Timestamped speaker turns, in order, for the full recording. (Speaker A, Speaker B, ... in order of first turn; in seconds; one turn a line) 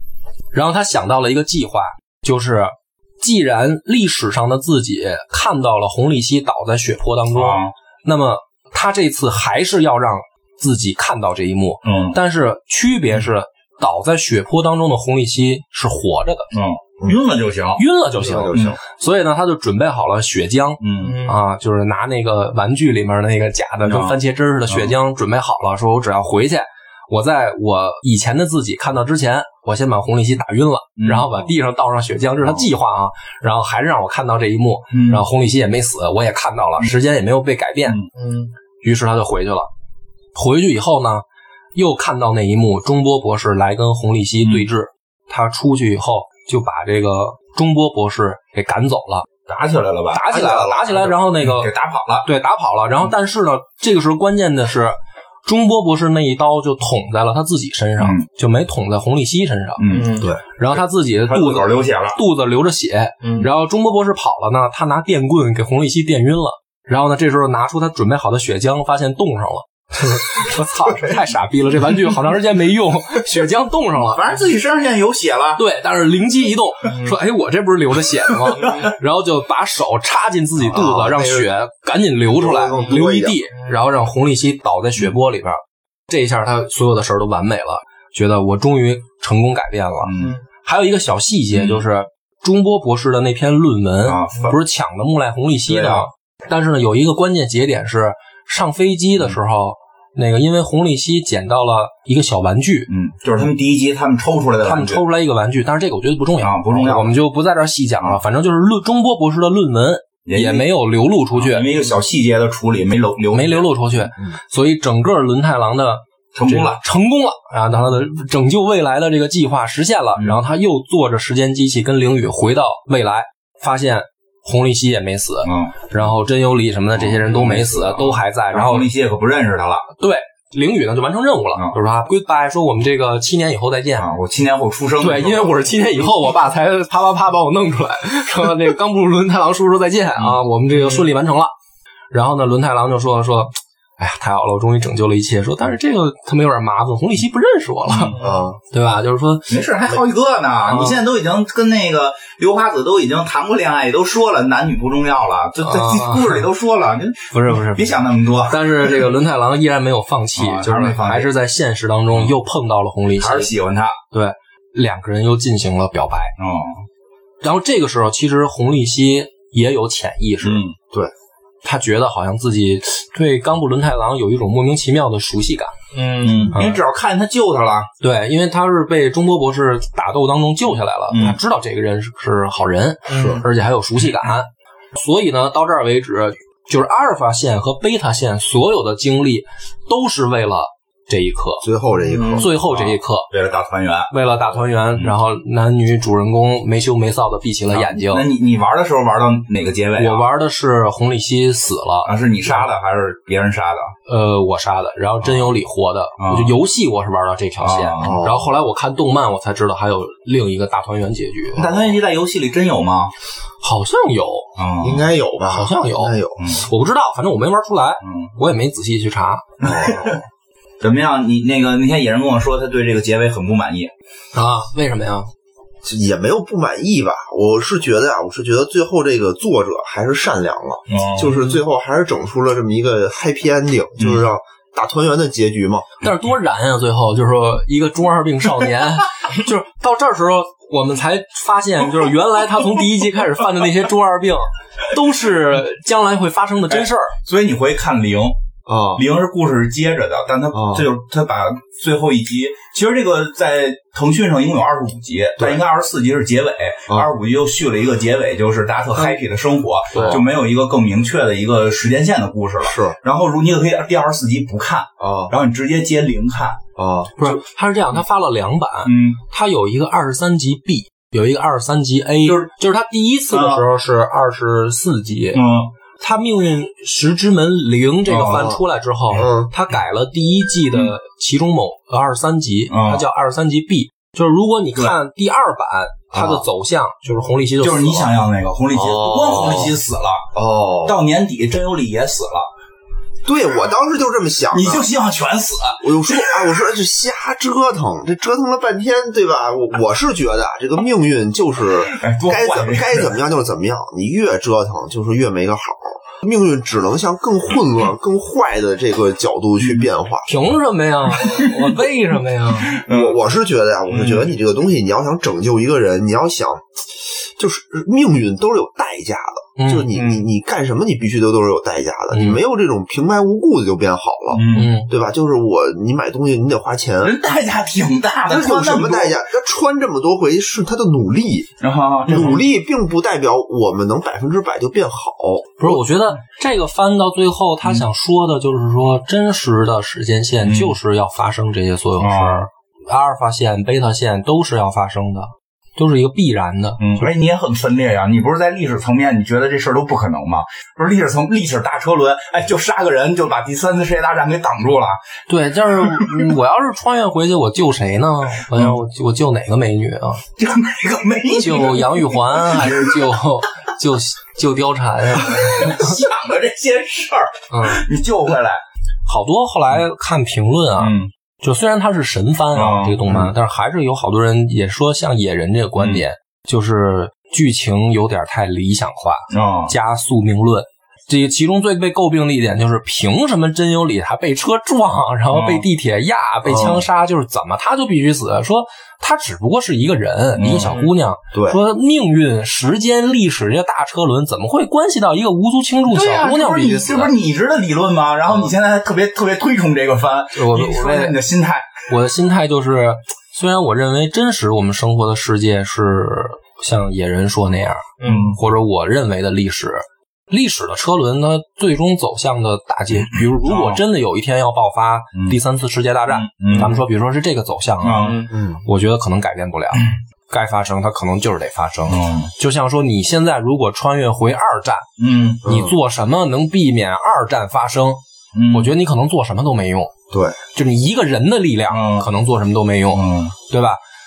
Speaker A: 0.5-16.5
Speaker B: 7.3-7.7
Speaker B: 11.8-12.2
Speaker B: 16.5-17.8
Speaker A: 17.8-38.0
Speaker C: 18.1-18.8
Speaker B: 18.5-18.8
Speaker B: 20.8-21.2
Speaker D: 21.0-21.4
Speaker B: 23.9-24.2
Speaker B: 31.0-31.4
Speaker B: 34.9-35.2
Speaker D: 38.1-38.5
Speaker A: 38.8-39.7
Speaker A: 40.3-41.2
Speaker A: 41.7-49.3
Speaker B: 49.5-52.3
Speaker A: 50.1-51.7
Speaker C: 50.4-50.6
Speaker A: 52.2-59.9
Speaker B: 59.8-62.2
Speaker D: 59.9-60.3
Speaker A: 60.5-74.2
Speaker B: 74.1-75.6
Speaker A: 75.6-90.1
Speaker D: 78.6-78.9
Speaker C: 80.7-81.5
Speaker C: 82.3-83.4
Speaker B: 90.0-90.4
Speaker A: 90.6-102.9
Speaker B: 91.5-91.8
Speaker B: 94.0-94.6
Speaker B: 95.7-96.1
Speaker B: 102.9-105.0
Speaker A: 104.6-111.7
Speaker B: 106.4-107.2
Speaker B: 110.3-110.7
Speaker B: 111.4-113.7
Speaker A: 113.3-128.9
Speaker B: 116.3-116.8
Speaker B: 125.5-125.9
Speaker B: 126.9-129.9
Speaker A: 130.0-134.1
Speaker B: 134.0-135.8
Speaker A: 135.0-141.5
Speaker A: 142.1-148.2
Speaker B: 147.9-148.2
Speaker D: 148.2-148.5
Speaker C: 148.2-148.6
Speaker A: 148.7-149.9
Speaker B: 149.5-158.7
Speaker A: 150.7-151.0
Speaker A: 155.6-156.4
Speaker A: 157.3-163.5
Speaker B: 160.4-161.3
Speaker B: 163.2-164.0
Speaker A: 164.1-166.3
Speaker B: 166.4-166.8
Speaker A: 167.4-170.6
Speaker B: 170.4-170.8
Speaker A: 171.6-175.7
Speaker D: 175.9-176.5
Speaker B: 176.2-177.9
Speaker A: 176.5-176.8
Speaker A: 178.0-191.6
Speaker B: 181.1-181.4
Speaker D: 183.1-183.4
Speaker C: 183.1-183.4
Speaker C: 191.6-192.6
Speaker D: 192.0-192.4
Speaker A: 192.4-193.3
Speaker B: 192.6-194.1
Speaker A: 194.1-198.2
Speaker B: 197.7-200.3
Speaker A: 200.0-202.7
Speaker B: 202.1-203.9
Speaker A: 204.1-211.9
Speaker B: 205.2-205.5
Speaker B: 206.2-206.5
Speaker B: 207.6-208.2
Speaker C: 208.0-208.5
Speaker B: 211.6-213.1
Speaker A: 213.6-214.5
Speaker B: 214.6-215.1
Speaker C: 214.8-216.4
Speaker A: 215.5-219.4
Speaker B: 216.4-216.6
Speaker B: 218.0-218.3
Speaker B: 219.6-220.2
Speaker C: 219.6-220.2
Speaker B: 220.8-223.9
Speaker A: 224.3-225.3
Speaker C: 225.8-235.9
Speaker B: 230.9-231.4
Speaker A: 236.0-247.1
Speaker B: 246.7-248.4
Speaker C: 248.7-249.0
Speaker B: 248.9-266.6
Speaker C: 250.5-250.9
Speaker C: 259.9-260.2
Speaker C: 262.6-263.0
Speaker C: 265.0-265.3
Speaker C: 266.8-267.1
Speaker A: 267.2-275.4
Speaker B: 268.8-269.2
Speaker B: 272.2-272.5
Speaker B: 273.3-273.6
Speaker B: 275.3-275.7
Speaker A: 276.0-288.1
Speaker B: 278.1-278.5
Speaker C: 278.2-278.6
Speaker C: 279.1-279.5
Speaker B: 282.7-283.1
Speaker C: 286.1-286.4
Speaker B: 287.6-292.5
Speaker C: 288.7-289.8
Speaker C: 290.3-291.0
Speaker C: 293.2-294.9
Speaker B: 294.5-296.4
Speaker C: 295.8-310.5
Speaker B: 301.9-303.2
Speaker A: 310.3-312.8
Speaker B: 312.7-313.2
Speaker C: 312.8-327.2
Speaker A: 319.6-319.9
Speaker D: 319.9-320.2
Speaker A: 322.1-322.4
Speaker B: 324.3-324.8
Speaker A: 324.5-324.9
Speaker B: 327.0-329.2
Speaker C: 328.3-331.5
Speaker B: 331.6-332.5
Speaker C: 332.1-335.8
Speaker A: 335.6-347.1
Speaker B: 340.4-340.8
Speaker B: 342.0-342.5
Speaker B: 346.8-355.0
Speaker A: 355.3-360.2
Speaker B: 360.4-363.2
Speaker A: 361.3-366.0
Speaker B: 365.2-368.6
Speaker A: 367.5-367.9
Speaker A: 369.1-397.1
Speaker B: 370.8-371.1
Speaker B: 372.5-373.3
Speaker B: 375.8-376.0
Speaker B: 379.3-379.7
Speaker B: 385.3-385.6
Speaker C: 386.4-386.8
Speaker B: 390.4-390.9
Speaker D: 390.6-390.9
Speaker C: 391.3-391.6
Speaker B: 395.9-401.8
Speaker A: 400.3-401.2
Speaker A: 401.9-418.1
Speaker D: 408.0-408.4
Speaker B: 408.0-408.4
Speaker B: 413.0-413.8
Speaker B: 416.1-416.8
Speaker B: 417.8-418.2
Speaker D: 418.0-418.3
Speaker C: 418.3-418.6
Speaker A: 418.6-424.9
Speaker B: 421.9-422.3
Speaker B: 425.0-425.4
Speaker C: 425.4-425.8
Speaker A: 425.4-429.9
Speaker B: 428.3-428.7
Speaker C: 430.1-430.4
Speaker A: 430.5-433.8
Speaker B: 431.7-432.1
Speaker B: 432.9-433.3